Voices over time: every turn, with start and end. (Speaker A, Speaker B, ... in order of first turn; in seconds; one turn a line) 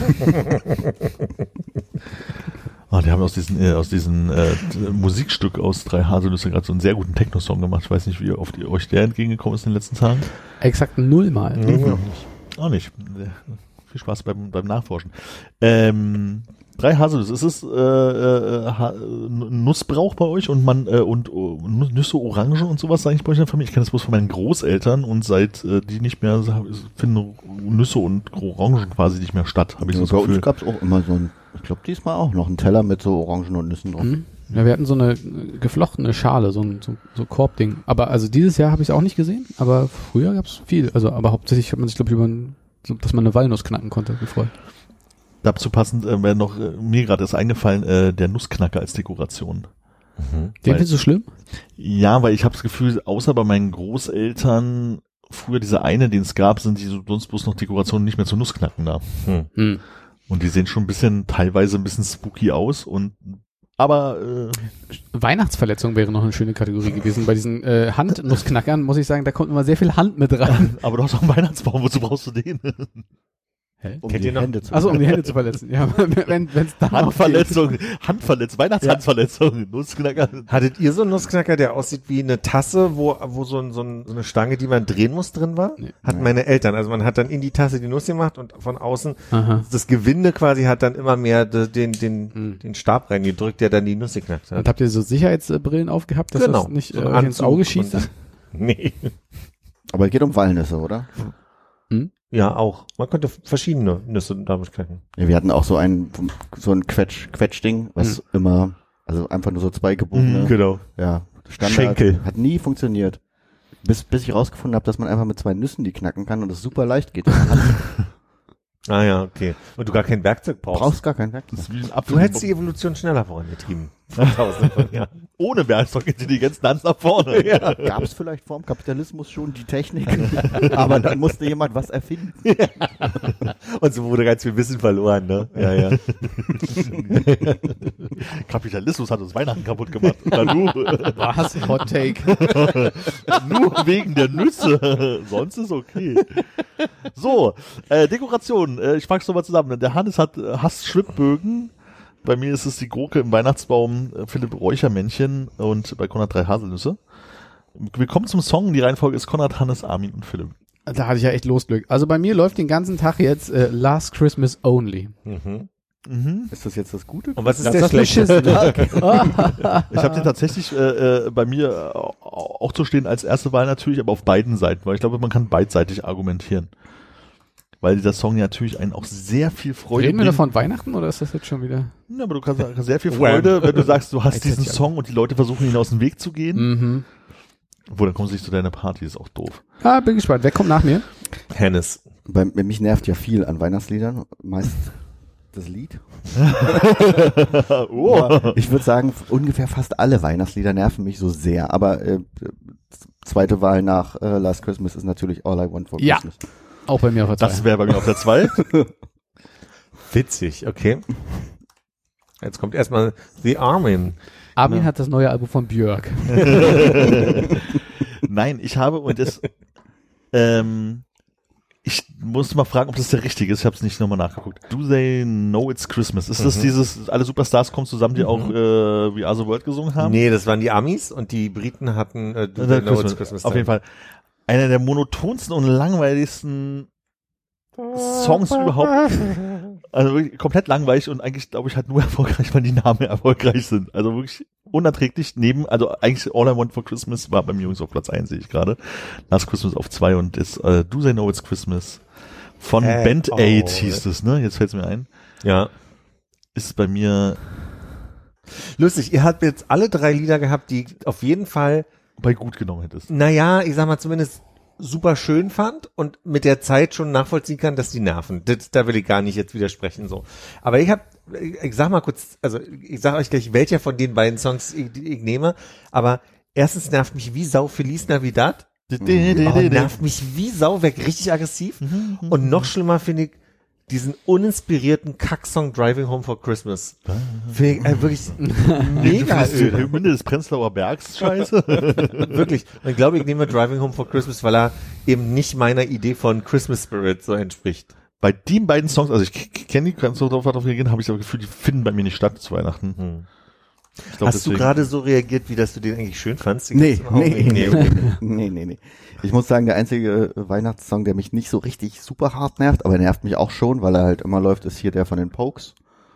Speaker A: 2.9-10.4
Speaker B: 10.6-11.7
Speaker C: 11.6-12.2
Speaker A: 11.8-30.4
Speaker D: 29.8-34.2
Speaker B: 34.0-44.5
Speaker A: 45.4-49.7
Speaker C: 50.2-50.5
Speaker A: 50.6-51.1
Speaker B: 50.6-51.3
Speaker A: 51.8-59.6
Speaker B: 59.5-59.8
Speaker A: 60.3-64.7
Speaker B: 64.9-70.8
Speaker A: 70.5-73.1
Speaker B: 73.8-77.7
Speaker D: 74.0-75.1
Speaker C: 74.0-74.8
Speaker A: 76.9-80.5
Speaker C: 80.5-94.7
Speaker D: 86.0-86.3
Speaker B: 89.3-89.6
Speaker B: 92.3-92.6
Speaker B: 94.5-98.1
Speaker C: 96.3-99.1
Speaker D: 99.9-101.1
Speaker C: 102.3-105.0
Speaker D: 105.2-118.0
Speaker A: 110.1-110.8
Speaker C: 110.4-110.8
Speaker A: 111.6-112.2
Speaker C: 111.9-112.2
Speaker C: 118.9-121.0
Speaker D: 120.7-121.7
Speaker A: 121.5-122.5
Speaker C: 122.0-125.2
Speaker A: 124.2-127.9
Speaker C: 127.3-128.0
Speaker D: 127.8-132.8
Speaker C: 132.4-137.7
Speaker A: 135.5-157.0
Speaker B: 141.0-142.8
Speaker A: 157.7-160.5
Speaker B: 160.8-165.1
Speaker C: 165.2-165.7
Speaker A: 166.1-166.5
Speaker D: 166.5-169.5
Speaker C: 167.4-169.3
Speaker B: 167.6-169.9
Speaker A: 169.9-176.7
Speaker A: 177.8-180.4
Speaker B: 179.9-181.9
Speaker A: 182.1-186.9
Speaker C: 183.1-184.0
Speaker B: 184.2-184.9
Speaker B: 186.5-187.1
Speaker A: 187.9-189.6
Speaker B: 189.8-191.1
Speaker C: 191.5-192.0
Speaker D: 192.3-196.7
Speaker A: 196.5-198.6
Speaker D: 198.0-206.4
Speaker B: 206.0-208.1
Speaker A: 207.4-208.7
Speaker C: 210.1-211.4
Speaker C: 212.4-214.2
Speaker B: 214.6-217.1
Speaker A: 214.6-214.9
Speaker A: 216.3-217.6
Speaker A: 218.2-219.6
Speaker A: 220.3-221.1
Speaker A: 221.8-230.2
Speaker C: 226.4-226.7
Speaker C: 228.2-228.5
Speaker C: 230.0-233.7
Speaker A: 232.6-236.9
Speaker A: 237.9-255.1
Speaker C: 252.8-254.0
Speaker C: 255.4-255.7
Speaker A: 256.5-257.6
Speaker C: 258.5-261.9
Speaker A: 262.2-263.1
Speaker C: 263.1-278.8
Speaker A: 278.9-280.0
Speaker D: 279.0-279.5
Speaker C: 279.4-283.4
Speaker A: 281.8-282.7
Speaker C: 283.9-290.0
Speaker A: 287.1-292.4
Speaker B: 288.6-289.1
Speaker C: 291.2-297.9
Speaker A: 298.2-303.3
Speaker C: 303.0-303.3
Speaker C: 304.0-308.1
Speaker A: 304.1-304.8
Speaker D: 306.7-315.8